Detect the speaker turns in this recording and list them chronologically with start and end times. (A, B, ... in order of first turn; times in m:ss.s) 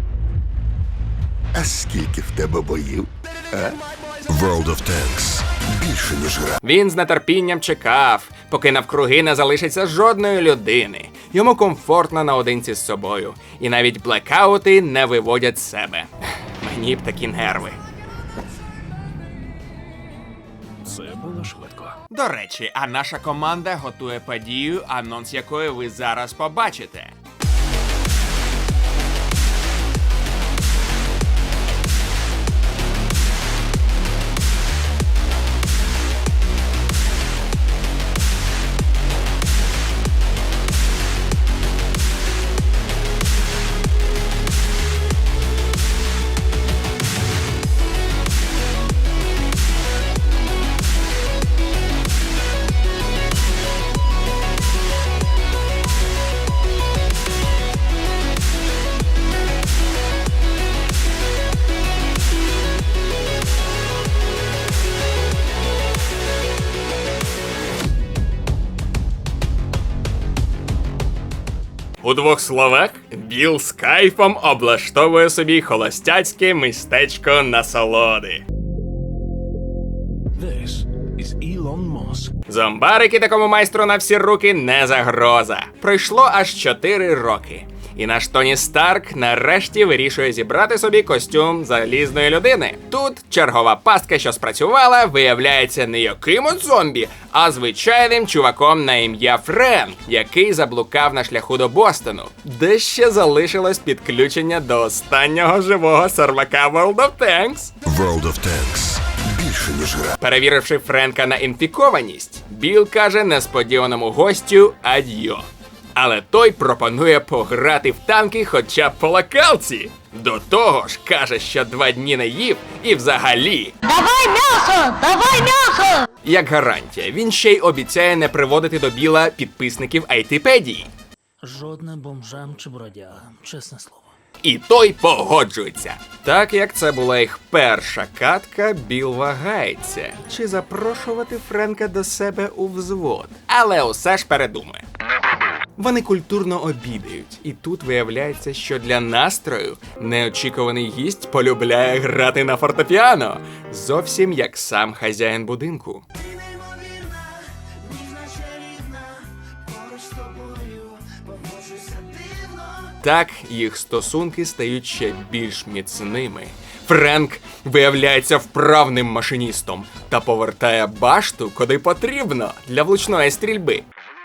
0:01.5-0:06.6 A
0:06.6-0:17.8 B
0:20.9-0:22.0 C
0:22.1-0:27.1 B
1:12.0-1:18.4 B
1:20.3-1:22.3 C
1:22.4-1:47.8 B
1:47.8-1:50.2 A
1:50.2-2:03.8 B
2:03.8-2:06.0 D
2:06.2-2:10.9 B
2:11.4-2:14.0 E
2:14.4-2:24.8 B
2:25.8-2:36.3 B
2:42.6-2:53.8 B